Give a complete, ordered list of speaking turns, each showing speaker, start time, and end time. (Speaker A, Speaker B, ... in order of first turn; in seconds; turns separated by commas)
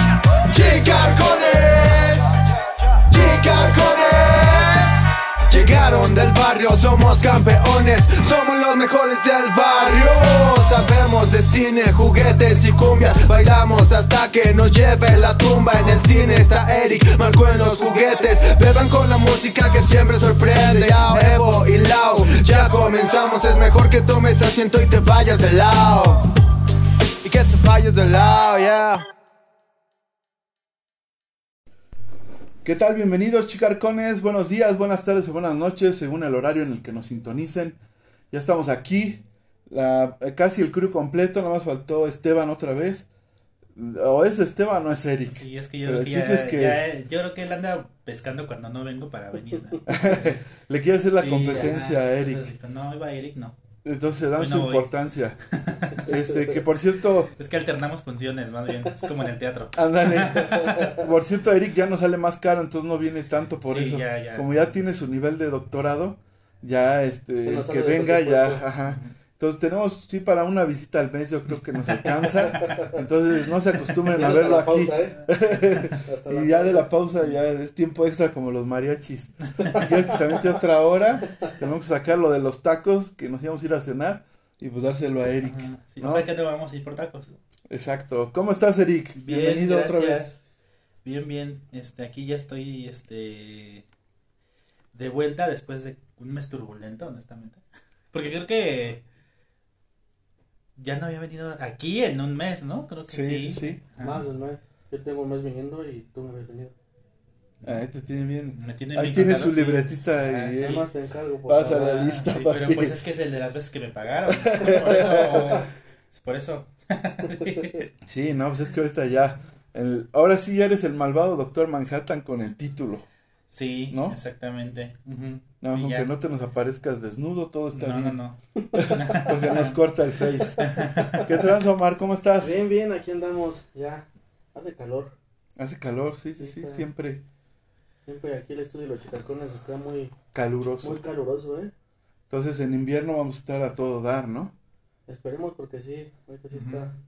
Speaker A: 0.5-2.4, Speaker A: 3.0-26.2, Speaker A: 27.2-29.1, Speaker B: 32.6-37.8, Speaker B: 38.3-43.1, Speaker B: 43.8-46.8, Speaker C: 45.3-50.4, Speaker B: 49.9-52.5, Speaker C: 51.1-53.6, Speaker B: 53.8-55.4, Speaker C: 54.4-55.0, Speaker C: 55.5-56.1, Speaker B: 56.0-57.3, Speaker C: 57.4-61.0, Speaker B: 59.8-86.3, Speaker C: 63.6-64.5, Speaker D: 67.4-68.6, Speaker C: 68.8-69.1, Speaker C: 71.8-72.9, Speaker D: 72.6-73.0, Speaker D: 74.1-76.9, Speaker C: 85.4-87.4, Speaker B: 87.7-90.3, Speaker C: 89.2-90.4, Speaker C: 91.0-93.8, Speaker C: 94.9-99.0, Speaker C: 100.8-104.2, Speaker B: 103.1-103.8, Speaker D: 104.0-106.8, Speaker B: 107.7-110.9, Speaker C: 108.5-110.9, Speaker D: 110.6-112.2, Speaker B: 111.5-113.0, Speaker C: 111.7-117.9, Speaker B: 114.3-115.7, Speaker B: 118.1-123.1, Speaker C: 123.5-126.1, Speaker B: 123.9-124.2, Speaker B: 125.6-128.2, Speaker C: 127.7-129.8, Speaker D: 128.6-129.3, Speaker B: 128.8-132.6, Speaker D: 130.6-131.2, Speaker C: 130.6-131.4, Speaker D: 132.4-135.2, Speaker B: 135.6-137.2, Speaker D: 136.4-136.9, Speaker D: 138.1-140.1, Speaker B: 140.3-141.0, Speaker D: 140.8-141.7, Speaker B: 142.3-144.5, Speaker D: 145.1-146.9, Speaker C: 146.5-146.9